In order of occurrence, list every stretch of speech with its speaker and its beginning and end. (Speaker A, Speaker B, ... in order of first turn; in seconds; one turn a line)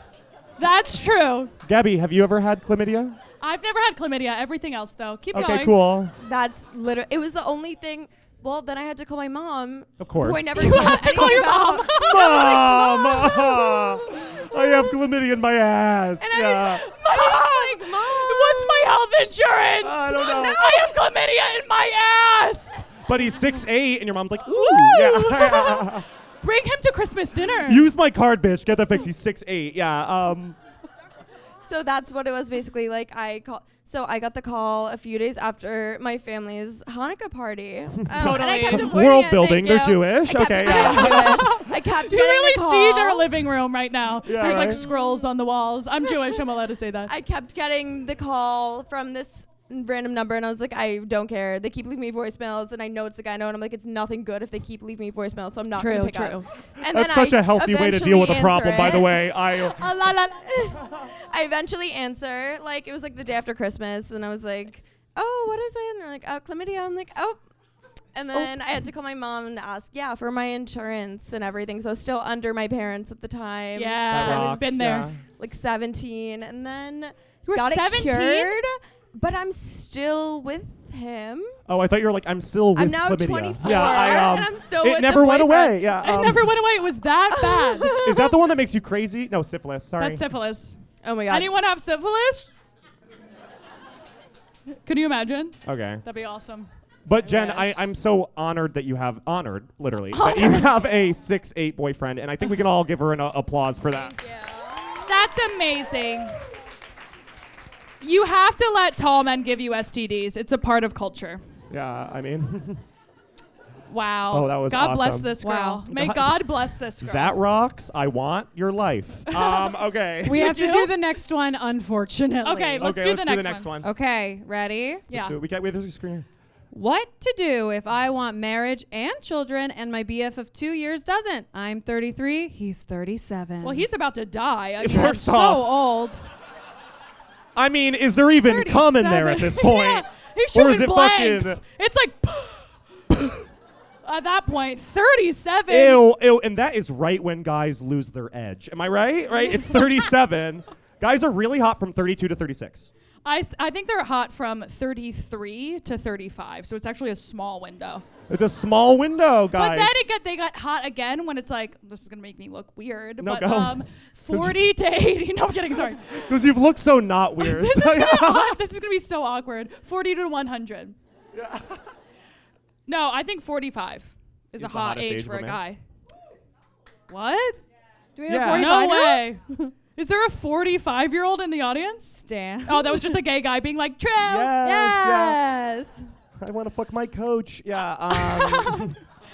Speaker A: 0.6-1.5
Speaker B: 1.6-3.2
Speaker A: 3.4-5.8
Speaker B: 5.3-6.2
Speaker C: 6.2-13.9
Speaker B: 10.0-16.9
Speaker A: 10.6-13.4
Speaker C: 16.2-18.9
Speaker A: 16.4-22.9
Speaker B: 19.8-20.6
Speaker C: 20.4-20.8
Speaker B: 23.0-26.1
Speaker A: 24.4-27.9
Speaker B: 27.6-30.6
Speaker C: 31.6-43.3
Speaker B: 38.0-41.6
Speaker A: 38.2-38.9
Speaker A: 40.6-47.1
Speaker B: 44.2-44.8
Speaker C: 44.4-45.2
Speaker C: 47.0-59.3
Speaker A: 55.8-56.5
Speaker B: 56.8-59.8
Speaker A: 59.5-60.8
Speaker C: 60.6-67.4
Speaker C: 68.1-81.6
Speaker A: 73.7-75.1
Speaker B: 74.1-75.2
Speaker A: 77.4-78.6
Speaker B: 81.7-86.5
Speaker C: 82.7-85.9
Speaker A: 86.0-88.0
Speaker C: 87.3-88.3
Speaker B: 87.9-90.2
Speaker A: 90.0-92.5
Speaker C: 91.0-91.5
Speaker A: 94.8-96.7
Speaker B: 95.6-96.0
Speaker B: 97.0-104.2
Speaker A: 97.2-97.8
Speaker A: 100.1-100.7
Speaker C: 104.1-105.1
Speaker A: 105.0-106.4
Speaker A: 108.0-111.4
Speaker B: 111.7-112.8
Speaker A: 113.9-117.4
Speaker B: 114.3-115.3
Speaker D: 115.4-115.8
Speaker B: 115.9-120.7
Speaker A: 119.3-119.7
Speaker D: 120.2-122.9
Speaker A: 120.2-120.9
Speaker A: 122.4-123.7
Speaker B: 122.8-123.9
Speaker D: 123.8-125.0
Speaker A: 125.1-125.4
Speaker B: 125.1-126.2
Speaker D: 126.7-133.8
Speaker A: 133.6-136.2
Speaker B: 134.8-135.7
Speaker B: 137.5-141.6
Speaker A: 138.4-142.8
Speaker A: 144.0-146.1
Speaker B: 145.7-152.9
Speaker A: 149.4-149.8
Speaker A: 153.2-158.1
Speaker B: 158.3-160.0
Speaker A: 159.5-166.2
Speaker B: 163.2-164.7
Speaker B: 166.0-168.6
Speaker A: 167.4-170.9
Speaker B: 171.3-171.8
Speaker A: 172.9-175.8
Speaker B: 174.6-175.6
Speaker A: 177.1-177.6
Speaker D: 178.2-179.7
Speaker B: 178.3-178.8
Speaker A: 178.5-179.4
Speaker A: 179.9-184.5
Speaker D: 182.2-183.2
Speaker B: 184.2-185.4
Speaker D: 184.6-186.1
Speaker B: 186.4-189.0
Speaker A: 188.2-188.9